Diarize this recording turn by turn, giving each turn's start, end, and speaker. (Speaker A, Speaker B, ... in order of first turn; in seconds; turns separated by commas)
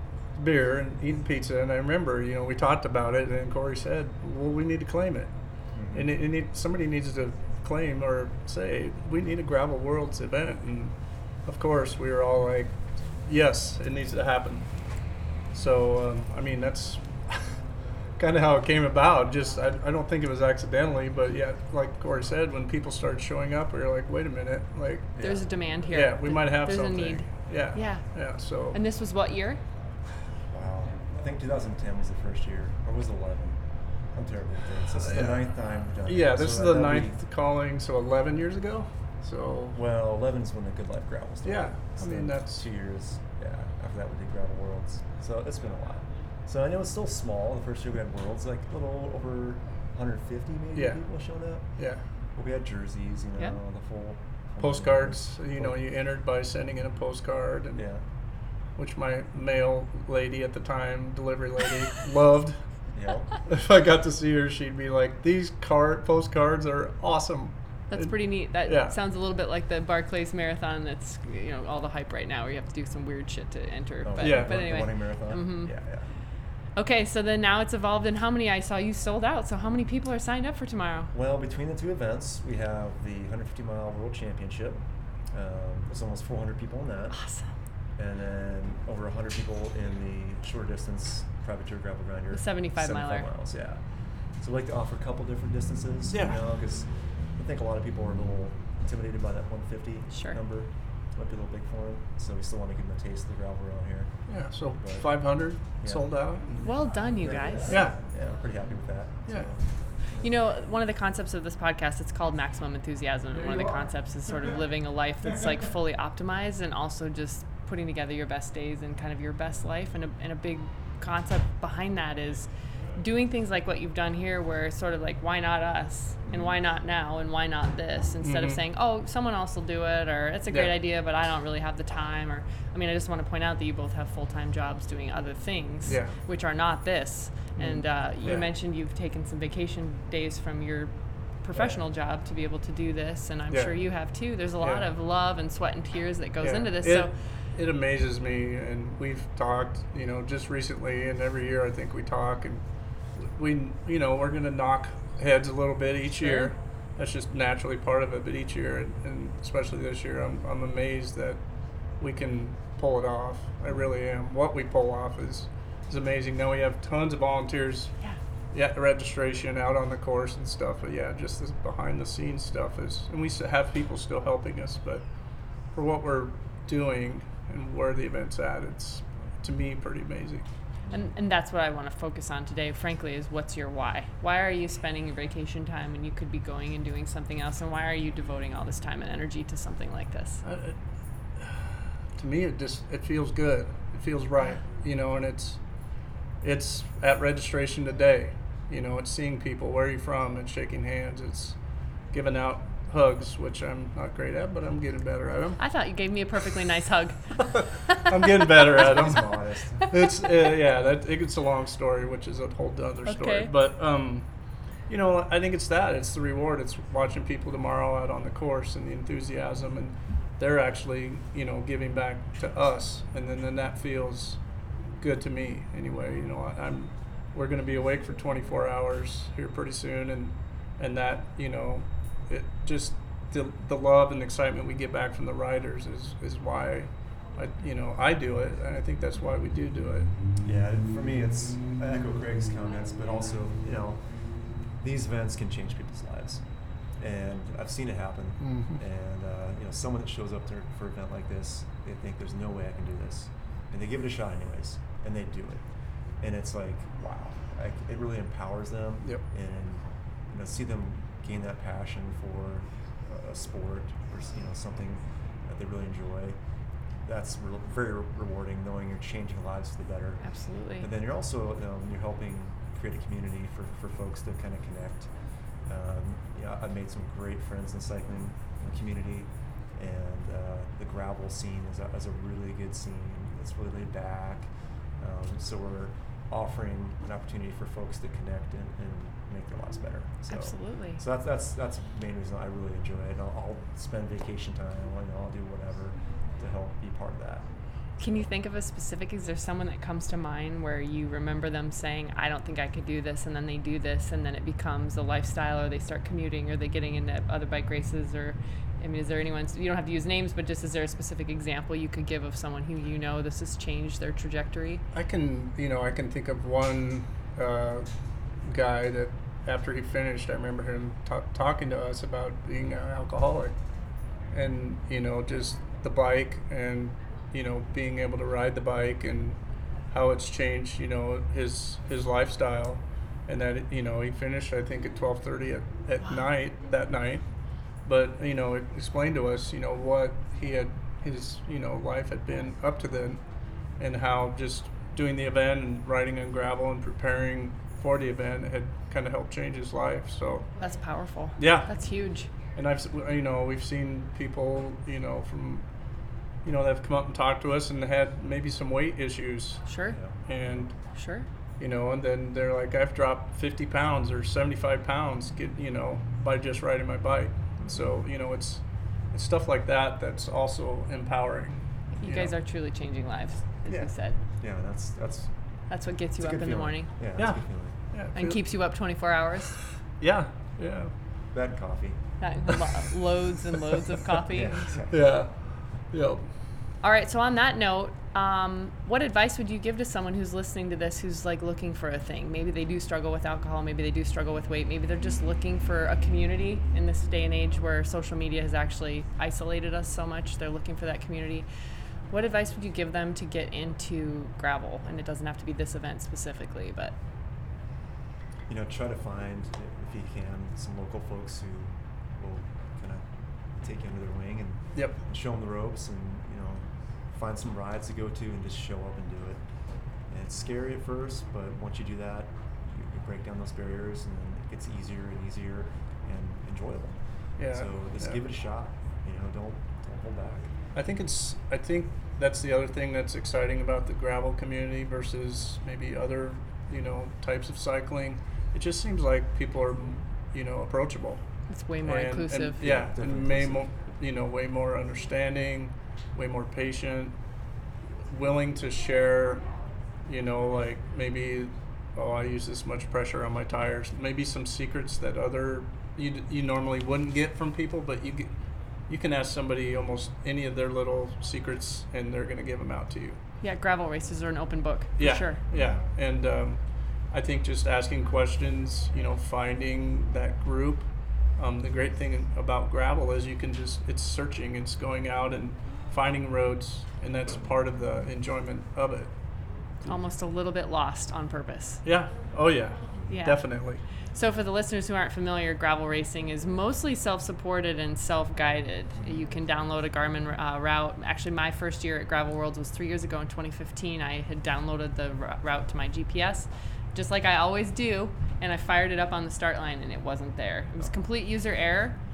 Speaker A: 0.3-5.3, Speaker B: 5.7-6.1, Speaker A: 5.9-25.1, Speaker B: 25.1-25.5, Speaker C: 25.2-29.6, Speaker A: 25.9-28.8, Speaker B: 30.5-37.2, Speaker A: 34.9-39.8, Speaker B: 39.7-55.8, Speaker A: 41.4-42.7, Speaker A: 50.7-51.0, Speaker A: 51.8-52.0, Speaker A: 54.6-57.8, Speaker B: 57.7-58.0, Speaker A: 58.7-62.9, Speaker B: 62.9-63.3, Speaker A: 63.5-69.0, Speaker C: 67.9-76.2, Speaker B: 74.0-76.1, Speaker A: 74.2-74.8, Speaker C: 76.7-81.1, Speaker B: 81.1-87.3, Speaker C: 87.1-87.5, Speaker B: 87.9-110.3, Speaker C: 92.3-93.3, Speaker A: 96.1-96.4, Speaker C: 100.1-100.4, Speaker A: 104.3-106.9, Speaker C: 106.6-107.8, Speaker A: 107.7-108.0, Speaker C: 110.2-147.1, Speaker B: 126.2-126.6, Speaker A: 128.2-128.6, Speaker A: 130.5-130.7, Speaker A: 135.9-136.1, Speaker B: 135.9-136.1, Speaker A: 137.6-138.4, Speaker A: 143.5-143.7, Speaker A: 144.6-144.8, Speaker A: 146.4-168.0, Speaker C: 156.2-156.5, Speaker A: 168.5-180.5, Speaker B: 180.8-181.1, Speaker C: 180.9-190.4, Speaker A: 190.4-190.8, Speaker A: 191.3-205.6, Speaker C: 194.3-194.6, Speaker C: 205.6-208.5, Speaker A: 207.9-240.1, Speaker B: 208.7-209.9, Speaker C: 209.9-210.3, Speaker C: 213.0-213.5, Speaker B: 240.4-246.4, Speaker B: 246.9-266.4, Speaker A: 248.4-248.8, Speaker B: 267.0-298.3, Speaker C: 270.2-270.9, Speaker C: 290.3-291.0, Speaker C: 298.0-314.8, Speaker A: 314.9-323.6, Speaker A: 324.3-350.5, Speaker C: 336.0-336.3, Speaker C: 350.6-352.3, Speaker A: 351.4-351.7, Speaker A: 352.5-355.9, Speaker A: 356.4-360.9, Speaker C: 359.7-360.0, Speaker B: 359.9-360.7, Speaker C: 360.9-361.3, Speaker A: 361.6-372.4, Speaker B: 367.6-368.0, Speaker C: 371.9-374.2, Speaker A: 373.6-373.9, Speaker B: 374.4-377.8, Speaker C: 375.7-376.9, Speaker A: 377.1-378.4, Speaker C: 378.1-379.6, Speaker A: 379.8-380.9, Speaker B: 381.3-382.1, Speaker C: 382.2-384.8, Speaker B: 384.3-385.1, Speaker A: 384.9-386.3, Speaker C: 386.8-401.5, Speaker C: 402.1-407.0, Speaker B: 408.5-430.5, Speaker A: 427.4-428.2, Speaker A: 430.7-447.2, Speaker C: 441.5-442.6, Speaker B: 442.6-443.7, Speaker A: 448.1-449.5, Speaker A: 450.0-463.2, Speaker C: 463.4-465.4, Speaker A: 465.0-479.9, Speaker B: 465.5-465.8, Speaker C: 479.8-481.8, Speaker A: 481.8-483.8, Speaker B: 482.9-483.2, Speaker C: 483.1-502.0, Speaker B: 488.9-489.2